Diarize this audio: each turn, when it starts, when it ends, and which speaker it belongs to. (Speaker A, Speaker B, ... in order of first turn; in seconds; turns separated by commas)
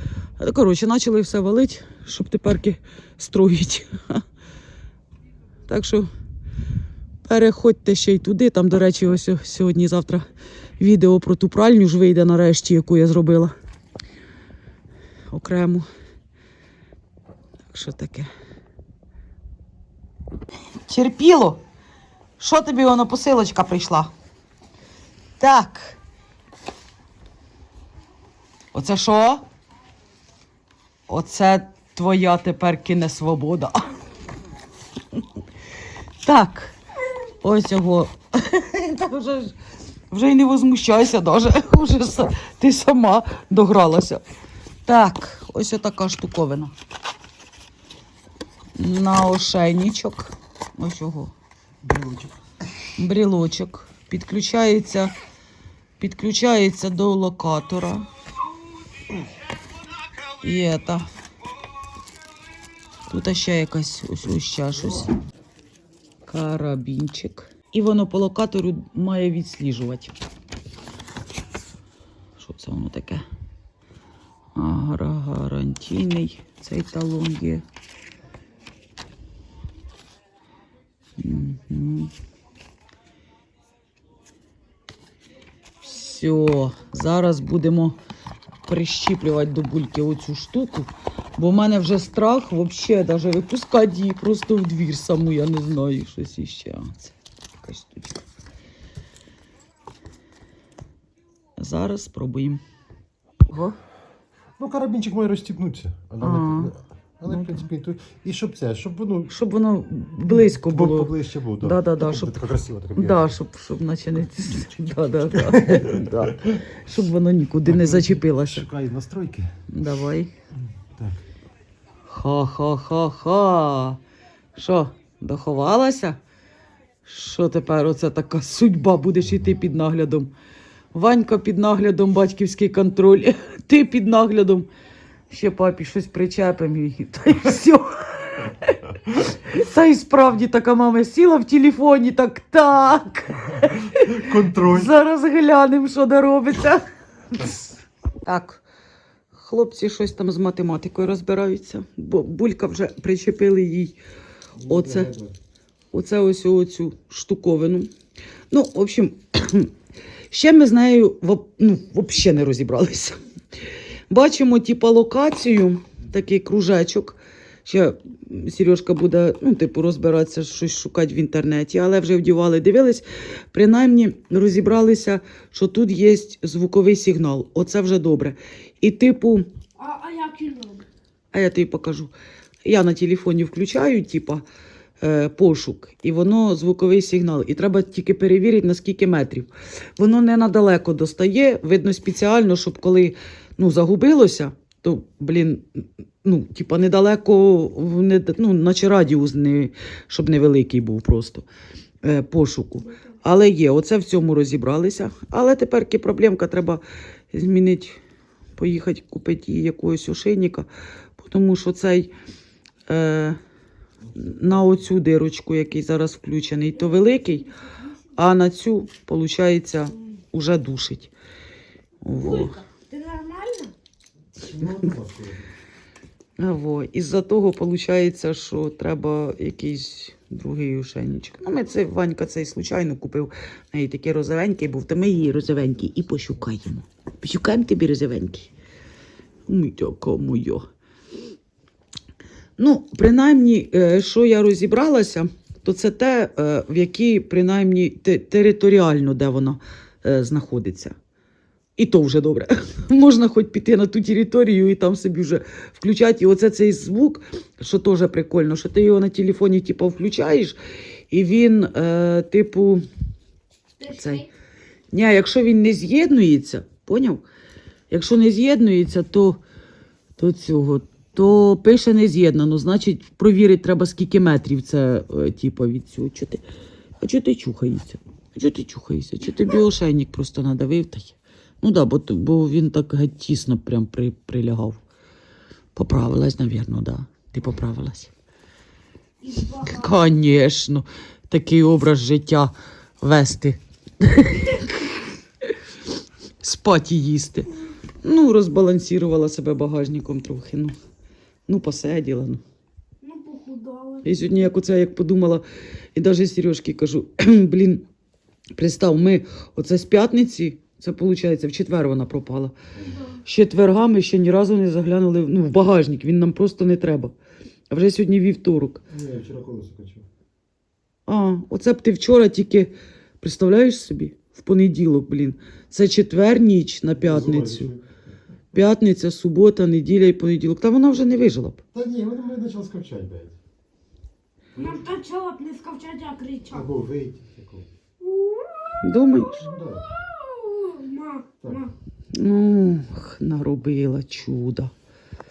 Speaker A: 0.4-4.2, Speaker A: 5.7-6.1, Speaker A: 7.2-10.3, Speaker A: 10.8-13.5, Speaker A: 15.3-15.9, Speaker A: 17.7-18.3, Speaker A: 20.9-21.6, Speaker A: 22.4-24.1, Speaker A: 25.4-26.0, Speaker A: 28.7-29.4, Speaker A: 31.1-33.9, Speaker A: 36.2-36.8, Speaker A: 37.4-39.6, Speaker A: 40.1-44.2, Speaker A: 44.9-46.7, Speaker A: 48.8-51.3, Speaker B: 51.8-52.3, Speaker A: 53.0-55.1, Speaker A: 56.0-58.1, Speaker A: 60.4-61.1, Speaker A: 63.1-65.2, Speaker A: 66.3-70.1, Speaker A: 72.4-73.2, Speaker A: 74.5-77.6, Speaker A: 81.2-82.1, Speaker A: 85.8-88.0, Speaker A: 88.7-98.2, Speaker A: 101.6-102.6, Speaker A: 103.5-103.8, Speaker B: 104.6-109.3, Speaker A: 106.2-106.8, Speaker A: 107.3-107.7, Speaker A: 109.3-112.4, Speaker B: 110.3-113.3, Speaker A: 113.0-118.7, Speaker B: 115.4-116.1, Speaker B: 117.7-119.6, Speaker A: 119.7-120.3, Speaker B: 120.8-121.2, Speaker A: 122.1-124.0, Speaker A: 124.6-126.2, Speaker A: 127.0-130.3, Speaker A: 130.9-134.7, Speaker A: 135.3-147.6, Speaker B: 144.1-144.9, Speaker A: 148.2-148.6, Speaker A: 149.3-154.0, Speaker B: 154.6-155.3, Speaker A: 154.7-155.1, Speaker A: 155.9-157.9, Speaker A: 158.5-159.7, Speaker A: 160.3-163.2, Speaker A: 164.1-179.5, Speaker C: 179.8-180.9, Speaker A: 181.3-184.4, Speaker A: 185.0-201.5, Speaker A: 202.0-208.0, Speaker A: 208.6-212.1, Speaker A: 212.9-213.4, Speaker A: 214.2-217.5, Speaker C: 217.5-218.0, Speaker A: 218.1-221.1, Speaker A: 222.0-222.6, Speaker C: 222.2-223.7, Speaker B: 224.4-225.4, Speaker A: 226.4-238.5, Speaker A: 239.5-240.6, Speaker A: 242.6-250.9, Speaker A: 251.8-260.6, Speaker A: 261.1-262.8, Speaker A: 263.9-264.3, Speaker A: 264.9-267.2, Speaker A: 267.9-269.4, Speaker A: 270.2-276.4, Speaker A: 277.0-284.8, Speaker A: 285.8-288.1, Speaker C: 289.2-289.9, Speaker A: 289.6-295.0, Speaker A: 296.4-300.7, Speaker A: 301.5-302.4, Speaker C: 303.0-304.1, Speaker A: 304.0-307.9, Speaker A: 308.6-312.5, Speaker B: 312.8-313.1, Speaker A: 313.2-317.1, Speaker A: 317.7-318.8, Speaker B: 318.9-320.1, Speaker A: 321.1-327.7, Speaker B: 326.9-327.8, Speaker A: 328.5-331.6, Speaker B: 331.7-333.4, Speaker B: 334.6-334.8, Speaker C: 334.6-336.7, Speaker B: 336.5-337.7, Speaker C: 338.0-338.8, Speaker A: 338.8-339.4, Speaker B: 339.4-339.9, Speaker C: 340.0-341.7, Speaker B: 341.4-341.7, Speaker A: 342.1-344.7